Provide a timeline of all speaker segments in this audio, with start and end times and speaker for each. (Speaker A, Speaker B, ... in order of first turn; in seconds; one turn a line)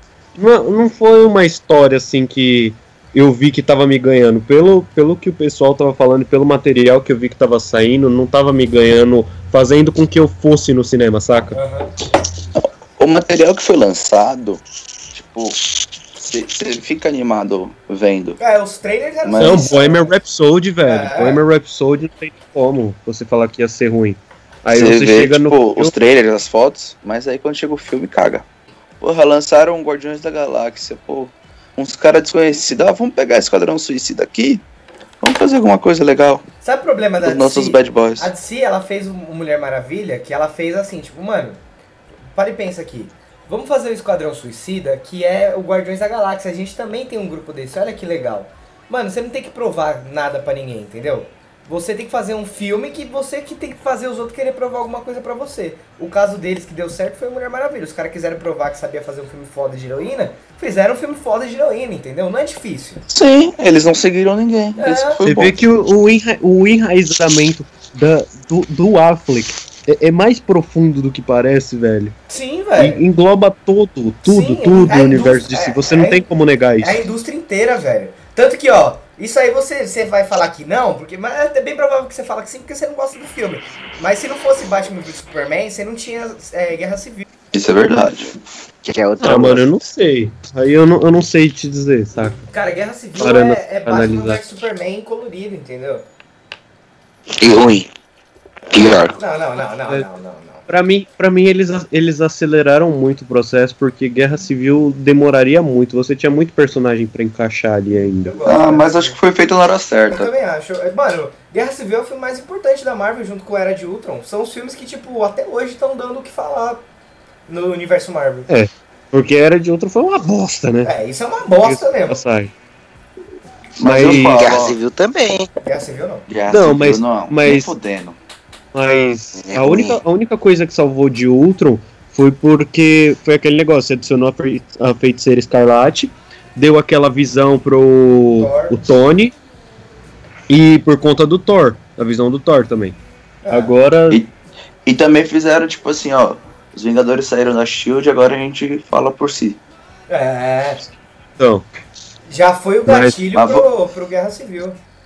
Speaker A: 0.3-11.6
Speaker B: 11.5-11.9
Speaker C: 12.6-14.6
Speaker C: 15.1-15.6
Speaker C: 16.1-18.4
Speaker B: 18.4-20.1
Speaker C: 19.2-19.7
Speaker A: 19.4-25.9
Speaker B: 20.8-21.4
Speaker C: 24.7-28.4
Speaker C: 29.0-34.6
Speaker C: 35.2-36.4
Speaker B: 36.6-41.6
Speaker C: 37.2-38.3
Speaker B: 42.3-63.0
Speaker C: 63.1-65.5
Speaker B: 64.8-65.2
Speaker A: 65.2-72.1
Speaker B: 72.3-73.0
Speaker A: 72.8-77.0
Speaker B: 74.2-76.3
Speaker B: 76.8-87.2
Speaker C: 87.5-88.3
Speaker D: 88.8-89.7
Speaker A: 89.2-92.5
Speaker B: 92.5-96.0
Speaker A: 93.2-94.4
Speaker C: 97.4-97.9
Speaker C: 98.7-99.2
Speaker B: 99.1-100.7
Speaker A: 100.7-108.3
Speaker B: 108.2-109.2
Speaker C: 108.5-110.3
Speaker B: 110.1-116.8
Speaker B: 117.5-118.5
Speaker A: 118.5-120.9
Speaker B: 120.8-122.2
Speaker A: 121.6-122.5
Speaker C: 123.8-124.8
Speaker A: 123.8-124.5
Speaker D: 124.1-125.5
Speaker B: 125.6-126.2
Speaker C: 126.3-128.2
Speaker A: 126.5-127.7
Speaker A: 128.7-139.3
Speaker D: 129.4-130.0
Speaker B: 138.3-138.8
Speaker A: 140.5-143.0
Speaker B: 143.4-143.7
Speaker A: 143.5-144.2
Speaker C: 144.8-149.6
Speaker B: 150.1-150.8
Speaker A: 151.4-151.7
Speaker B: 152.3-154.8
Speaker A: 152.8-153.2
Speaker C: 153.3-153.6